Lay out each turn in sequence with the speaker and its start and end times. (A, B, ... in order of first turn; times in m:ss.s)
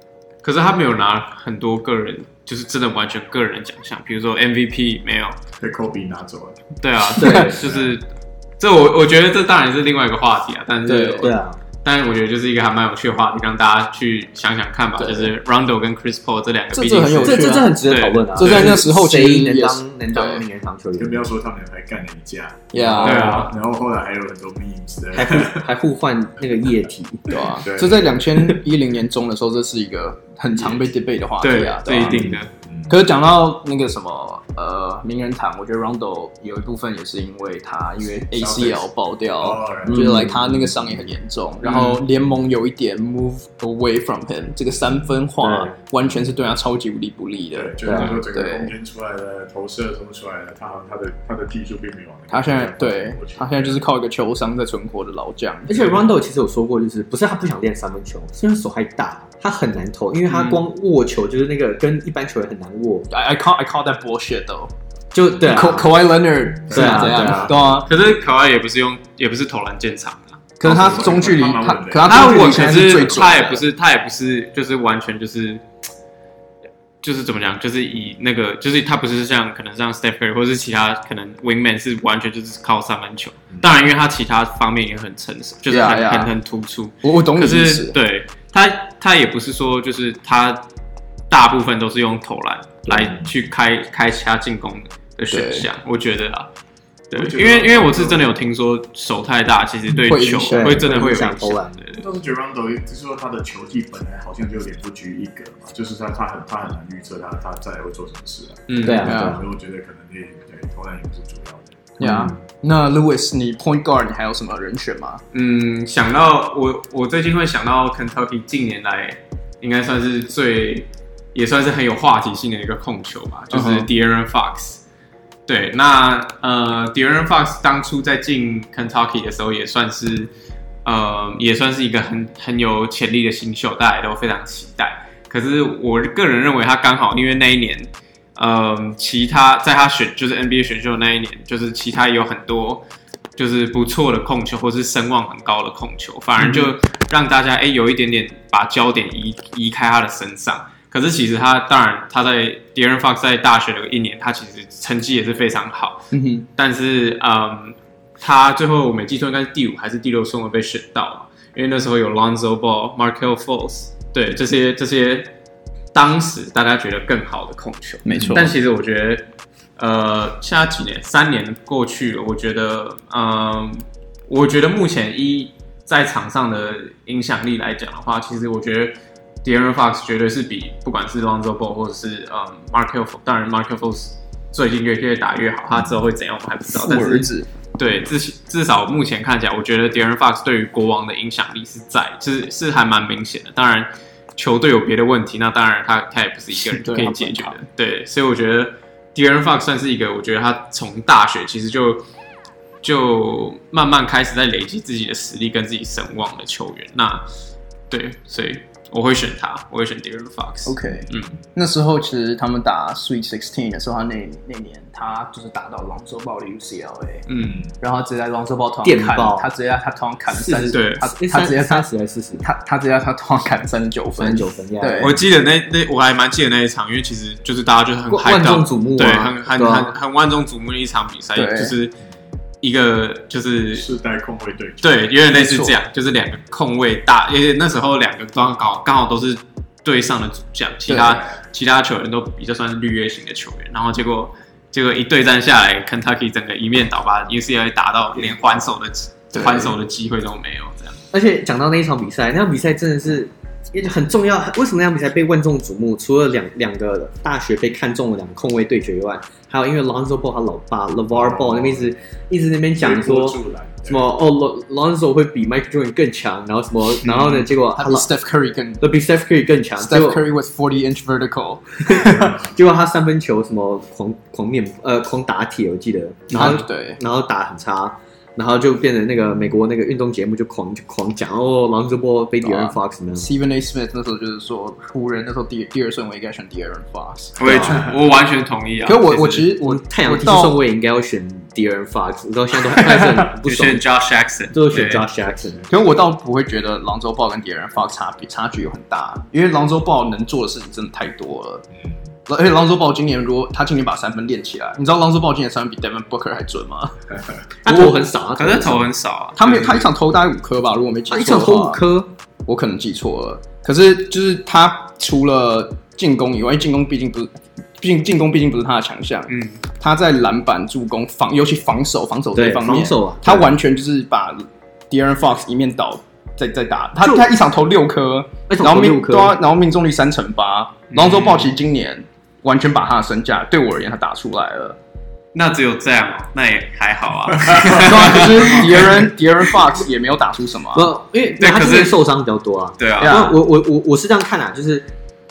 0:00.4-0:05.4 A
0:05.6-0:06.6 B
0:06.8-0:08.0 A
0:07.2-0:07.5 C
0:07.2-0:07.6 D
0:07.5-0:08.0 B
0:08.6-0:18.7 A
0:10.8-0:11.3 C
0:11.2-0:11.6 D
0:15.0-0:15.3 C
0:16.7-0:17.8 C
0:17.2-0:21.3 D
0:18.3-0:20.4 C
0:21.0-0:25.7 B
0:22.7-0:23.4 C
0:22.7-0:23.4 D
0:23.0-0:23.5 A
0:25.1-0:27.4 D
0:27.3-0:32.4 C
0:27.6-0:28.2 B
0:31.4-0:32.5 A
0:32.0-0:33.0 B
0:32.9-0:48.7 C
0:38.3-0:38.9 B
0:39.4-0:41.1 B
0:39.8-0:40.4 D
0:41.6-0:42.0 A
0:45.4-0:45.7 D
0:47.5-0:53.8 B
0:47.8-0:48.2 D
0:52.3-0:55.8 C
0:55.7-1:03.1 D
1:00.3-1:00.6 A
1:03.1-1:04.7 C
1:05.1-1:05.9 D
1:05.4-1:07.9 C
1:06.6-1:08.1 B
1:06.7-1:07.8 D
1:07.8-1:10.5 A
1:10.6-1:13.6 C
1:10.6-1:12.7 B
1:12.0-1:15.6 A
1:12.1-1:13.2 D
1:17.0-1:30.6 A
1:23.5-1:23.8 B
1:25.7-1:26.3 C
1:27.0-1:28.0 C
1:31.3-1:36.5 A
1:32.9-1:33.1 D
1:33.1-1:33.3 B
1:35.3-1:35.7 C
1:37.1-1:42.0 A
1:37.1-1:38.3 B
1:40.0-1:41.3 C
1:40.4-1:41.8 D
1:41.9-1:51.9 B
1:48.7-1:49.1 A
1:48.8-1:49.4 D
1:49.0-1:49.4 C
1:52.0-1:52.4 D
1:52.0-1:55.2 C
1:55.3-2:04.8 A
2:03.5-2:03.9 C
2:05.5-2:10.3 A
2:10.8-2:22.8 A
2:23.4-2:45.3 A
2:26.4-2:26.7 C
2:36.1-2:36.5 C
2:45.9-2:49.2 A
2:48.0-2:48.5 C
2:48.1-2:48.4 B
2:49.8-3:22.0 A
3:06.7-3:07.5 C
3:16.6-3:17.6 C
3:22.8-3:27.2 A
3:27.9-3:31.4 A
3:30.6-3:37.3 C
3:37.3-3:37.6 A
3:37.8-3:41.8 C
3:38.8-3:39.5 D
3:40.3-3:42.5 D
3:40.7-3:41.1 A
3:42.4-3:45.2 C
3:44.2-3:45.2 D
3:45.0-3:51.9 A
3:48.1-3:49.9 D
3:51.3-3:51.7 C
3:52.6-3:53.9 A
3:53.7-3:55.1 B
3:54.8-4:11.0 A
3:55.3-3:55.8 C
4:00.9-4:01.2 C
4:08.2-4:08.5 B
4:09.3-4:09.8 C
4:11.1-4:28.1 D
4:21.1-4:21.9 B
4:22.8-4:24.1 B
4:27.0-4:27.4 A
4:27.7-4:28.9 C
4:28.8-4:30.2 D
4:29.8-4:32.4 C
4:31.8-4:43.3 D
4:32.1-4:32.5 B
4:36.3-4:37.0 C
4:42.4-4:47.8 C
4:47.4-4:49.5 A
4:47.4-4:47.8 D
4:48.8-4:50.6 C
4:49.6-4:53.8 D
4:53.4-4:55.0 A
4:54.5-4:55.6 D
4:55.7-5:01.6 C
5:02.3-5:07.0 C
5:07.6-5:08.9 D
5:07.6-5:07.9 C
5:08.4-5:09.9 A
5:09.4-5:11.8 C
5:11.1-5:12.1 D
5:12.4-5:34.8 C
5:19.3-5:19.6 A
5:22.3-5:23.5 D
5:27.0-5:27.3 D
5:28.5-5:29.4 D
5:30.9-5:31.5 A
5:35.3-5:39.0 A
5:37.5-5:38.2 B
5:37.5-5:40.9 C
5:40.7-5:44.9 D
5:41.4-5:42.0 A
5:42.8-5:43.3 A
5:43.0-5:43.4 C